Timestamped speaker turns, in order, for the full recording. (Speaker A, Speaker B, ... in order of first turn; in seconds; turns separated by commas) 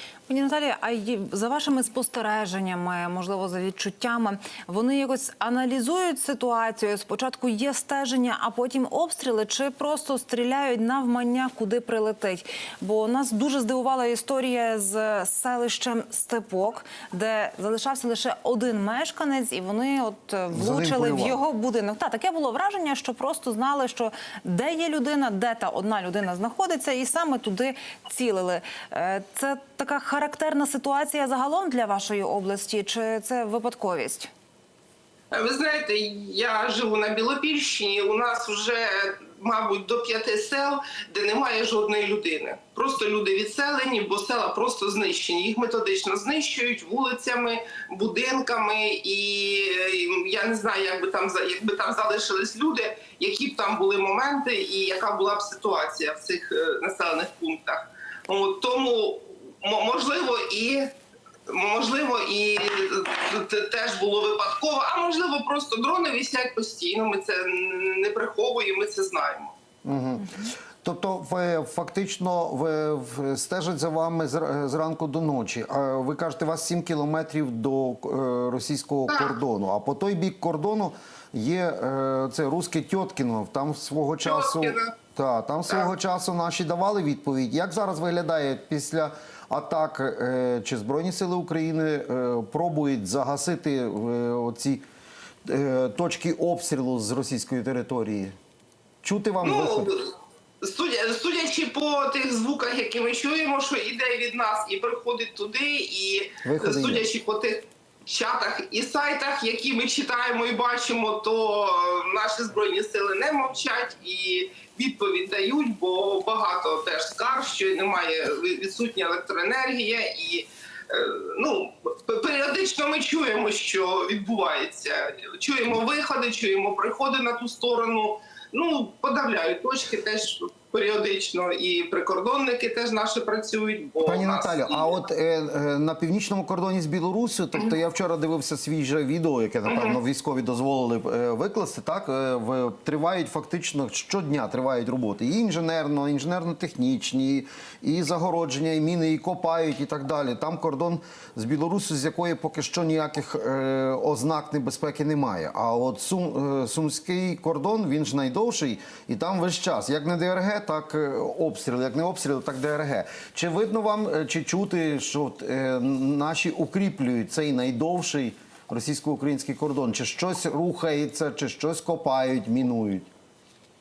Speaker A: 0.3-34.3, Speaker B: 20.5-21.4, Speaker C: 35.3-60.9, Speaker C: 61.5-69.5, Speaker B: 69.8-94.8, Speaker C: 79.1-79.4, Speaker C: 84.2-84.9, Speaker B: 95.5-98.3, Speaker B: 99.0-99.9, Speaker C: 99.4-135.0, Speaker B: 106.4-107.1, Speaker B: 134.0-173.1, Speaker C: 139.7-140.0